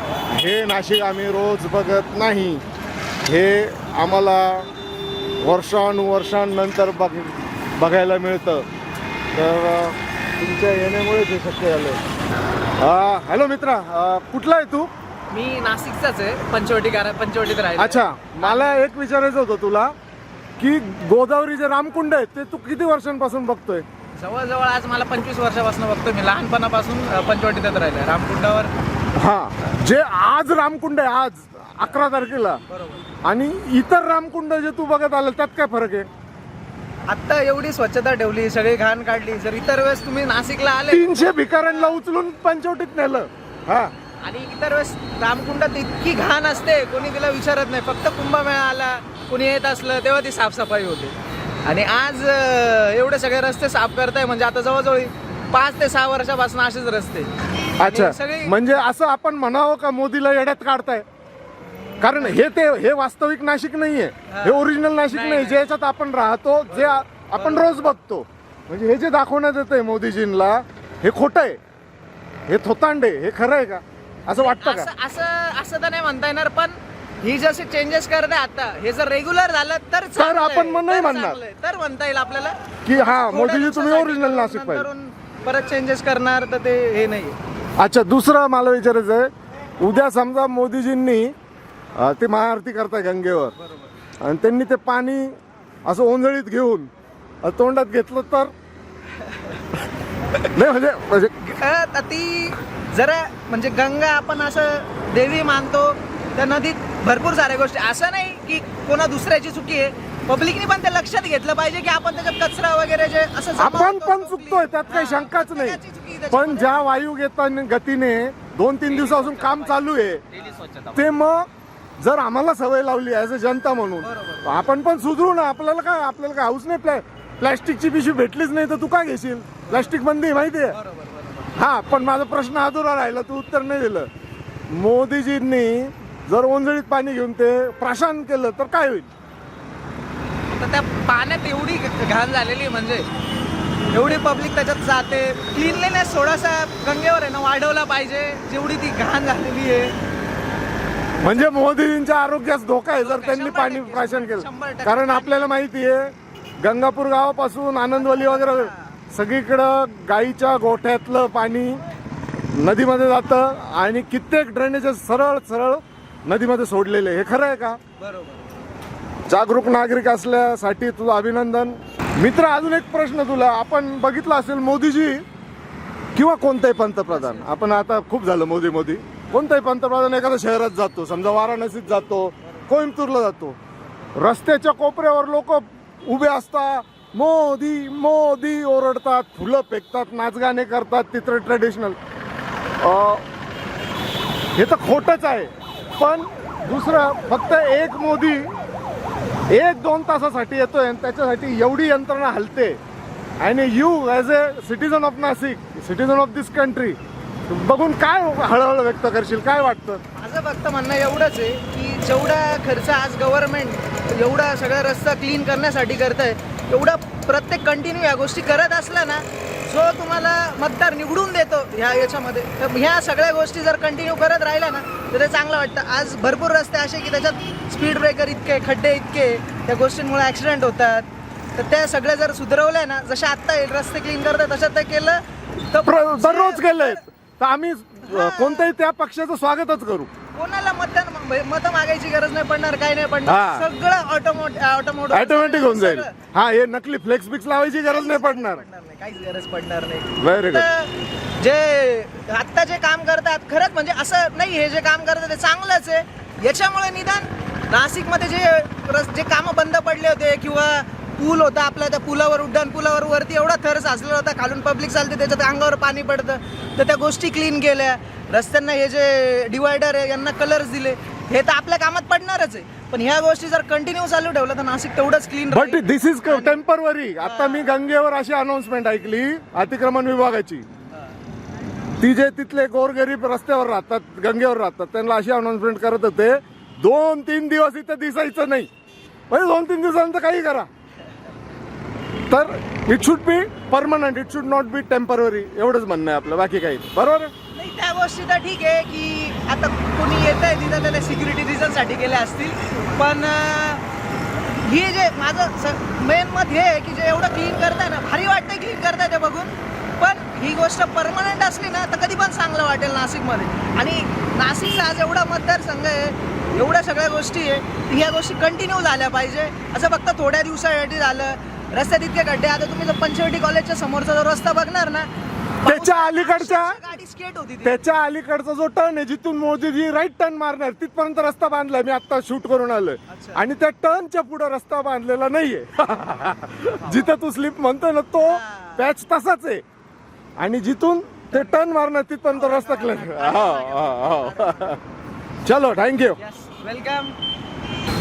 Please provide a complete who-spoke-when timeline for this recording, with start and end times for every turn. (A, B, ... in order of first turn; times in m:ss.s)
0:00.3-0:02.6 A
0:03.3-0:04.7 A
0:05.4-0:08.7 A
0:09.3-0:12.0 A
0:12.8-0:14.9 A
0:15.3-0:18.8 B
0:17.8-0:19.9 A
0:20.6-0:23.9 A
0:24.2-0:28.7 B
0:29.2-0:32.6 A
0:32.7-0:33.0 B
0:33.2-0:36.1 A
0:37.1-0:42.0 B
0:40.9-0:43.9 A
0:44.2-0:51.2 B
0:51.7-0:58.5 B
0:57.8-1:01.1 A
1:01.9-1:02.4 B
1:02.0-1:11.6 A
1:04.3-1:05.7 B
1:06.7-1:07.9 B
1:12.5-1:14.9 A
1:14.6-1:27.4 B
1:20.2-1:21.4 A
1:22.8-1:24.9 A
1:27.8-1:29.3 A
1:29.8-1:31.3 A
1:32.0-1:33.6 A
1:33.6-1:33.9 B
1:34.2-1:36.9 A
1:37.4-1:38.5 A
1:39.2-1:39.6 B
1:40.4-1:41.6 A
1:41.6-1:56.8 B
1:53.6-1:55.8 A
1:56.3-2:00.2 A
1:58.9-1:59.8 B
2:00.4-2:00.9 B
2:00.9-2:01.5 A
2:02.0-2:10.8 A
2:04.0-2:04.5 B
2:09.7-2:09.9 B
2:10.7-2:11.5 B
2:11.6-2:14.1 A
2:14.7-2:19.1 A
2:20.5-2:23.1 B
2:23.9-2:29.9 B
2:31.2-2:41.8 A
2:33.0-2:35.5 B
2:38.0-2:39.0 B
2:42.5-2:47.8 A
2:48.0-2:48.6 B
2:49.3-2:55.2 A
2:56.2-3:03.6 A
2:57.1-2:57.5 B
3:04.2-3:12.0 A
3:12.8-3:13.3 A
3:14.6-3:18.5 A
3:19.5-3:22.8 A
3:23.4-3:30.0 A
3:30.2-3:57.0 B
3:55.8-4:00.1 A
3:58.0-3:58.7 B
4:00.3-4:06.2 B
4:03.3-4:03.7 A
4:05.1-4:08.6 A
4:07.8-4:36.6 B
4:10.2-4:10.7 A
4:35.5-4:40.7 A
4:37.2-4:37.7 B
4:42.0-4:48.7 A
4:49.3-4:50.7 A
4:52.3-4:57.3 A
4:57.5-5:03.8 B
5:04.6-5:25.1 B
5:25.6-5:27.8 B
5:25.6-5:26.8 A
5:27.6-5:39.6 A
5:33.1-5:33.4 B
5:38.2-5:38.8 B
5:40.4-5:44.8 A
5:41.3-5:41.6 B
5:42.3-5:44.8 B
5:45.4-5:46.2 A
5:46.2-5:47.2 B